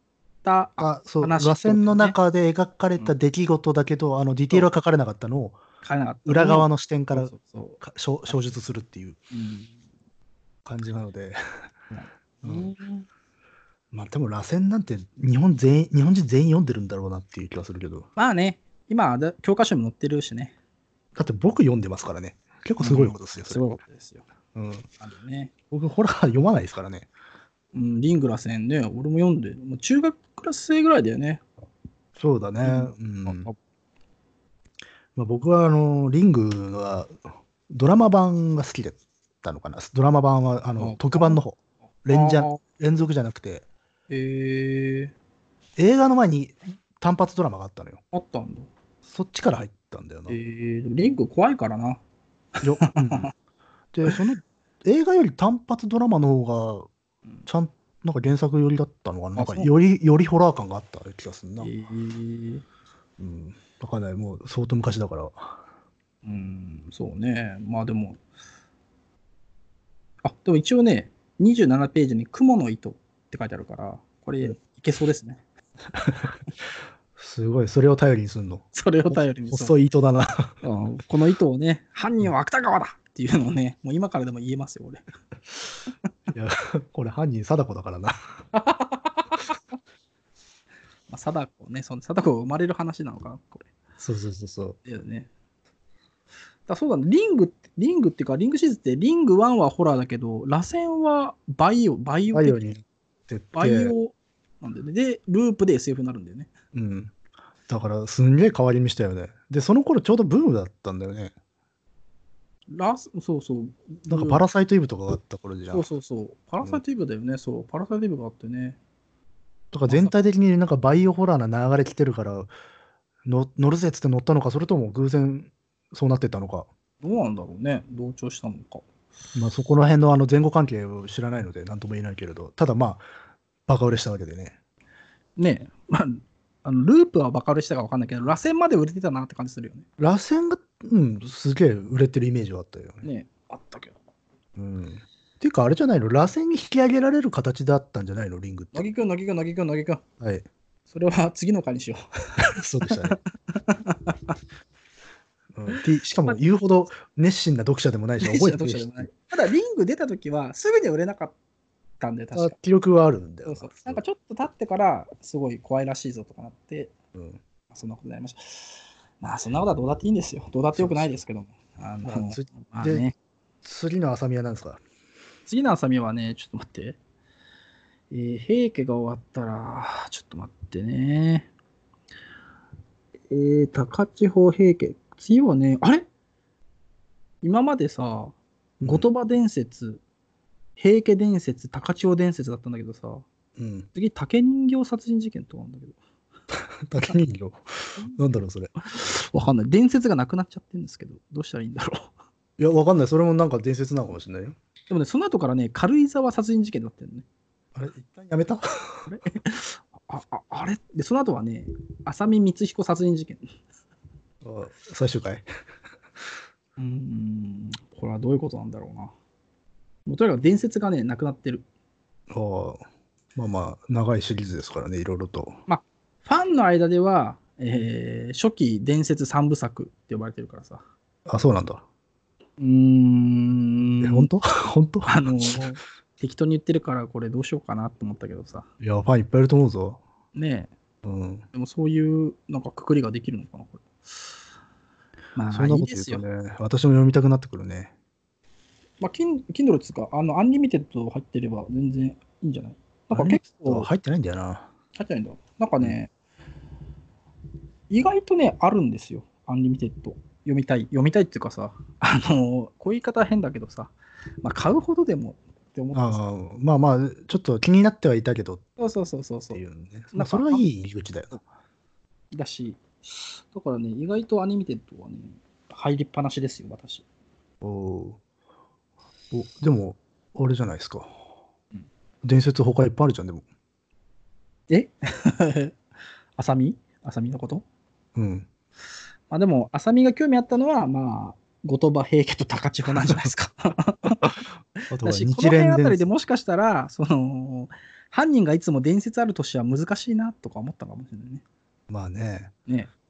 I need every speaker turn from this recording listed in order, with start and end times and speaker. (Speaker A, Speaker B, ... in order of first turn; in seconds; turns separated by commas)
Speaker A: 0.4-2.1, Speaker B: 0.8-5.6, Speaker A: 5.8-7.8, Speaker B: 6.2-9.2, Speaker A: 9.3-9.7, Speaker B: 10.7-11.4, Speaker A: 11.9-13.1, Speaker B: 12.4-12.7, Speaker B: 13.9-18.1, Speaker A: 18.1-20.5, Speaker B: 21.1-23.6, Speaker A: 22.8-24.2, Speaker B: 24.5-24.9, Speaker A: 25.0-25.5, Speaker B: 25.7-27.1, Speaker A: 27.7-31.4, Speaker B: 32.1-33.5, Speaker A: 32.6-33.5, Speaker B: 35.1-37.1, Speaker B: 37.7-43.6, Speaker A: 40.8-41.4, Speaker A: 42.1-42.6, Speaker A: 44.1-45.1, Speaker B: 45.8-48.0, Speaker A: 48.1-48.7, Speaker B: 49.0-50.4, Speaker A: 50.3-52.0, Speaker A: 52.6-53.3, Speaker B: 52.6-53.3, Speaker B: 53.9-56.9, Speaker B: 57.5-61.7, Speaker A: 59.4-59.7, Speaker A: 61.6-62.6, Speaker B: 63.2-65.6, Speaker A: 66.2-68.2, Speaker A: 70.2-75.4, Speaker B: 76.0-76.3, Speaker B: 77.2-80.5, Speaker A: 78.7-79.7, Speaker A: 80.6-85.0, Speaker B: 86.3-88.2, Speaker A: 88.5-89.5, Speaker A: 91.1-93.7, Speaker B: 94.0-94.8, Speaker A: 94.8-95.3, Speaker A: 96.7-102.7, Speaker B: 102.3-103.9, Speaker A: 103.5-106.5, Speaker B: 106.7-107.1, Speaker B: 107.7-111.3, Speaker A: 112.7-114.4, Speaker B: 114.1-115.8, Speaker A: 115.7-118.8, Speaker B: 119.7-122.5, Speaker A: 119.9-120.1, Speaker B: 123.2-126.7, Speaker A: 127.0-128.8, Speaker B: 129.3-133.0, Speaker B: 133.7-134.5, Speaker A: 135.4-139.8, Speaker B: 140.0-143.1, Speaker A: 143.0-143.9, Speaker B: 144.6-148.8, Speaker A: 148.7-150.0, Speaker B: 150.2-150.4, Speaker A: 150.9-154.3, Speaker B: 152.4-153.2, Speaker B: 155.5-159.1, Speaker A: 155.7-156.4, Speaker A: 158.2-161.3, Speaker A: 162.0-162.6, Speaker B: 162.3-164.0, Speaker A: 163.4-166.9, Speaker B: 167.1-167.4, Speaker A: 167.7-173.1, Speaker B: 170.7-171.2, Speaker B: 172.0-173.1, Speaker B: 173.6-174.8, Speaker A: 175.5-177.0, Speaker A: 178.1-181.5, Speaker A: 183.3-186.1, Speaker A: 187.4-190.0, Speaker B: 188.8-189.1, Speaker A: 190.8-193.2, Speaker B: 193.6-193.9, Speaker A: 193.9-196.0, Speaker B: 196.8-198.7, Speaker A: 198.9-202.1, Speaker B: 202.6-204.6, Speaker A: 204.9-207.2, Speaker B: 207.7-209.0, Speaker A: 209.1-213.4, Speaker B: 214.4-215.4, Speaker A: 216.8-219.1, Speaker A: 220.1-221.6, Speaker B: 222.3-222.8, Speaker B: 223.3-225.6, Speaker A: 225.7-230.8, Speaker B: 231.3-231.8, Speaker A: 232.6-234.3, Speaker B: 234.0-235.6, Speaker A: 235.1-238.7, Speaker B: 238.8-240.0, Speaker A: 240.3-240.7, Speaker B: 241.0-241.4, Speaker A: 241.5-243.8, Speaker A: 245.3-246.2, Speaker B: 245.5-247.9, Speaker A: 249.0-253.9, Speaker B: 253.1-254.7, Speaker A: 254.9-256.1, Speaker A: 257.9-266.2, Speaker B: 265.9-268.6, Speaker A: 268.8-269.6, Speaker B: 269.5-271.4, Speaker A: 270.1-270.6, Speaker A: 272.3-277.0, Speaker B: 277.6-278.2, Speaker B: 279.3-281.1, Speaker B: 282.2-283.4, Speaker A: 284.7-285.8, Speaker A: 286.4-287.6, Speaker B: 288.1-288.5, Speaker A: 289.3-294.3, Speaker B: 294.9-296.0, Speaker A: 295.0-301.4, Speaker B: 301.9-302.5, Speaker A: 302.7-302.9